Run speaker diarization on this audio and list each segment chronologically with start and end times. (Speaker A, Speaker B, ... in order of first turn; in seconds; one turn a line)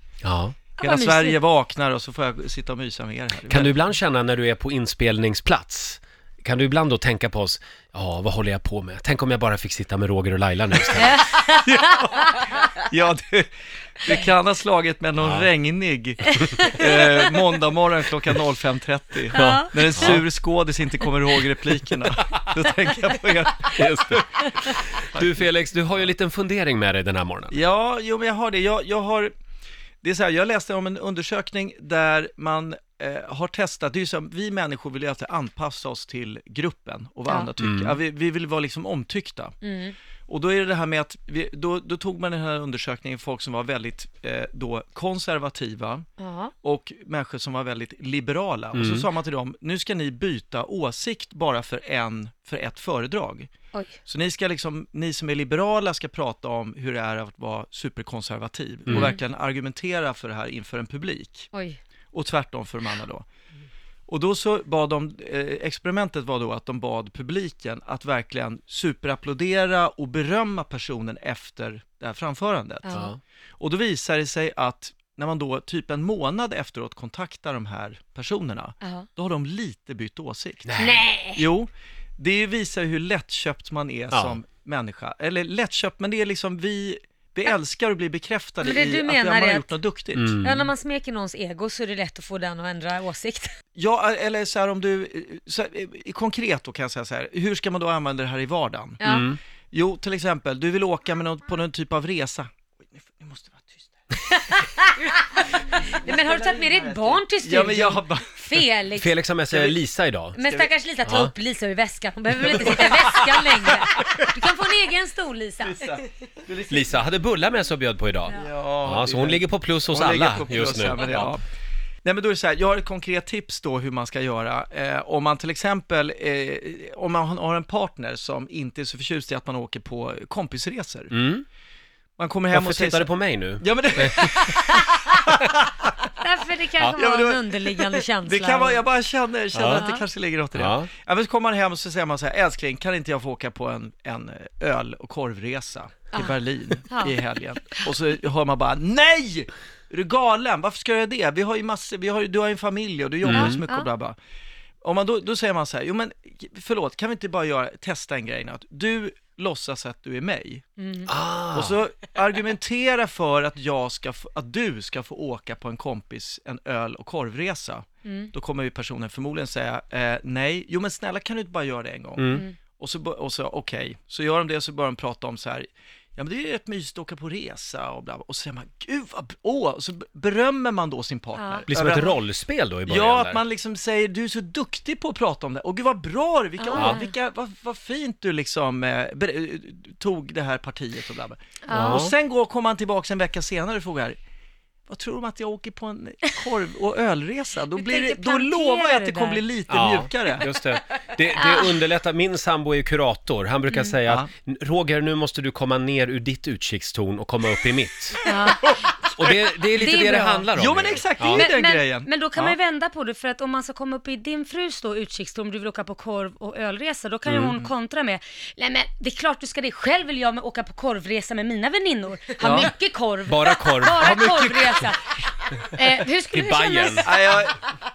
Speaker A: 0.2-0.6
Speaker B: 0.8-1.4
Speaker C: 0.8-3.8
Speaker A: 3.5-11.2
Speaker B: 10.9-12.7
Speaker C: 11.6-13.5
Speaker C: 14.0-24.2
Speaker A: 15.2-15.5
Speaker B: 16.3-17.4
Speaker B: 19.3-19.9
Speaker A: 19.3-20.2
Speaker A: 23.7-27.6
Speaker C: 27.5-29.3
Speaker C: 30.0-39.5
Speaker B: 37.3-37.5
Speaker A: 37.6-38.0
Speaker B: 39.6-39.9
Speaker C: 40.3-46.0
Speaker B: 46.2-46.5
Speaker C: 46.6-53.5
Speaker A: 48.7-49.1
Speaker C: 54.0-61.5
Speaker A: 58.9-59.1
Speaker B: 58.9-59.2
Speaker B: 61.5-61.8
Speaker C: 62.1-63.2
Speaker C: 64.1-73.0
Speaker B: 72.8-73.1
Speaker A: 72.9-73.2
Speaker C: 73.6-80.8
Speaker B: 78.8-79.1
Speaker A: 80.7-81.0
Speaker B: 80.8-81.5
Speaker C: 81.3-90.4
Speaker A: 84.1-84.4
Speaker B: 88.6-89.8
Speaker A: 90.1-90.7
Speaker B: 90.4-93.5
Speaker C: 93.8-99.0
Speaker B: 99.0-99.3
Speaker A: 99.0-99.4
Speaker C: 99.7-104.0
Speaker B: 104.2-109.1
Speaker C: 106.0-108.4
Speaker A: 109.0-110.4
Speaker C: 109.5-109.8
Speaker B: 110.3-116.0
Speaker A: 111.0-111.3
Speaker C: 112.5-112.8
Speaker A: 112.8-113.0
Speaker C: 115.6-116.9
Speaker A: 116.7-121.3
Speaker C: 118.3-121.4
Speaker C: 122.0-131.1
Speaker A: 131.1-131.4
Speaker C: 132.2-133.1
Speaker A: 132.5-134.6
Speaker C: 133.6-135.8
Speaker B: 136.2-138.9
Speaker C: 137.0-154.2
Speaker B: 139.5-140.1
Speaker A: 139.5-139.8
Speaker A: 140.5-140.9
Speaker B: 146.1-147.2
Speaker A: 153.2-153.6
Speaker B: 153.3-153.9
Speaker C: 154.8-160.6
Speaker B: 160.8-161.1
Speaker A: 161.1-161.8
Speaker C: 161.5-182.2
Speaker B: 168.0-168.3
Speaker A: 172.2-172.4
Speaker B: 181.3-181.7
Speaker A: 181.7-183.4
Speaker C: 182.9-194.2
Speaker B: 186.6-187.1
Speaker A: 186.7-187.0
Speaker B: 191.6-192.1
Speaker A: 191.7-192.1
Speaker C: 194.9-200.5
Speaker B: 197.7-199.5
Speaker A: 199.7-208.2
Speaker B: 201.3-201.8
Speaker B: 203.7-203.9
Speaker B: 208.2-209.0
Speaker C: 208.3-208.8
Speaker A: 209.1-211.5
Speaker B: 209.7-210.5
Speaker C: 210.5-212.6
Speaker B: 211.2-227.5
Speaker A: 217.2-217.6
Speaker A: 222.4-222.7
Speaker A: 223.2-224.1
Speaker C: 224.0-224.9
Speaker A: 226.3-227.1
Speaker C: 227.0-227.6